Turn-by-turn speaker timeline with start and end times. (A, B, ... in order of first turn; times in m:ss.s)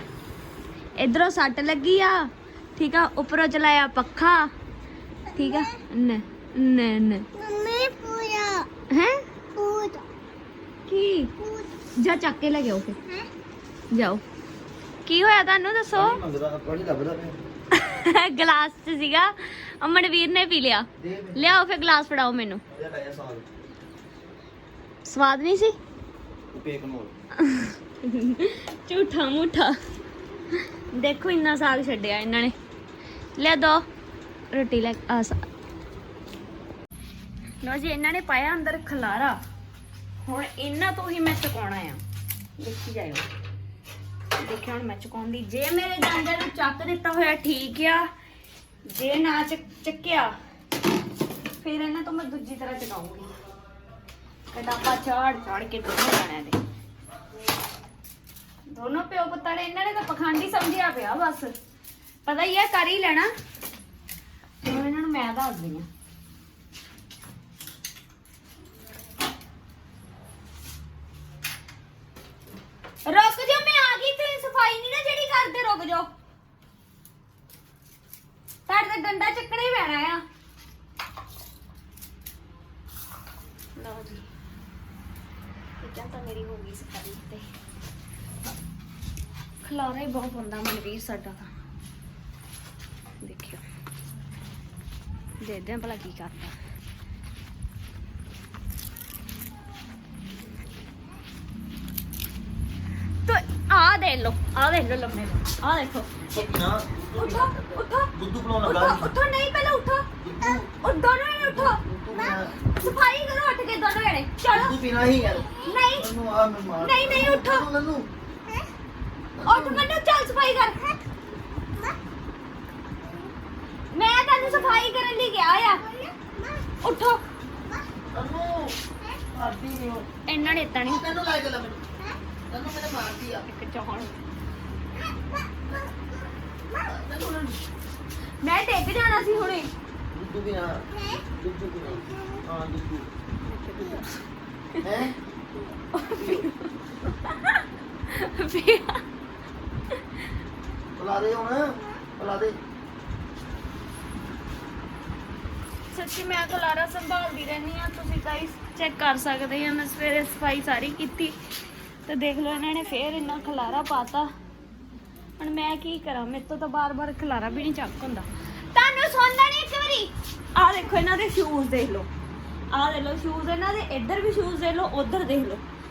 0:01.0-0:04.5 A
0:05.3-0:07.2 A
0:05.4-0:05.7 B
0:07.3-0:08.7 B
0:08.9-0:09.2 A
0:09.5-0:10.0 B
0:10.9-0:11.3 A
0:11.4-0:11.7 B
0:12.0-0:13.0 A
0:13.9-0:14.2 A
0:15.0-0:16.2 A
0:15.9-0:17.4 C
0:17.7-0:22.6 A
0:21.0-0:21.6 C
0:22.7-0:23.4 C
0:25.0-0:25.8 A
0:26.5-0:27.1 C
0:27.4-0:29.8 A
0:30.9-0:32.5 A
0:33.4-0:33.8 A
0:34.5-0:35.4 A
0:37.6-0:39.4 A
0:40.2-0:42.0 A
0:42.6-0:43.3 A
0:44.4-0:48.1 A
0:48.9-0:50.3 A
0:51.6-0:53.3 A
0:54.5-0:56.6 A
0:58.7-1:01.5 A
1:02.2-1:03.3 A
1:04.6-1:05.9 A
1:13.0-1:16.1 A
1:18.7-1:20.2 A
1:23.8-1:24.2 A
1:25.8-1:27.4 A
1:29.6-1:31.5 A
1:33.2-1:33.6 A
1:35.4-1:36.5 A
1:43.2-1:46.3 A
1:46.3-1:49.1 C
1:47.2-1:48.1 A
1:48.6-1:50.1 A
1:50.2-1:50.7 C
1:50.8-1:51.8 A
1:51.4-1:52.6 C
1:52.1-1:52.5 B
1:52.7-1:54.8 A
1:54.5-1:58.1 C
1:55.5-1:56.1 A
1:56.8-1:57.6 A
1:59.4-1:59.9 C
1:59.4-2:00.9 A
2:03.9-2:05.8 A
2:04.4-2:04.9 B
2:05.8-2:06.7 B
2:06.8-2:07.2 A
2:08.1-2:08.8 C
2:09.3-2:10.1 C
2:10.3-2:11.0 A
2:10.8-2:11.9 C
2:12.5-2:13.4 C
2:13.4-2:14.2 A
2:16.8-2:17.6 C
2:18.4-2:19.7 A
2:20.1-2:23.1 C
2:20.9-2:21.2 B
2:22.1-2:22.4 B
2:23.4-2:24.1 A
2:24.8-2:25.2 C
2:25.9-2:26.7 A
2:26.1-2:26.5 C
2:27.2-2:29.0 A
2:31.0-2:32.6 C
2:35.9-2:41.3 A
2:42.1-2:44.3 A
2:45.4-2:52.1 A
2:52.7-2:55.6 A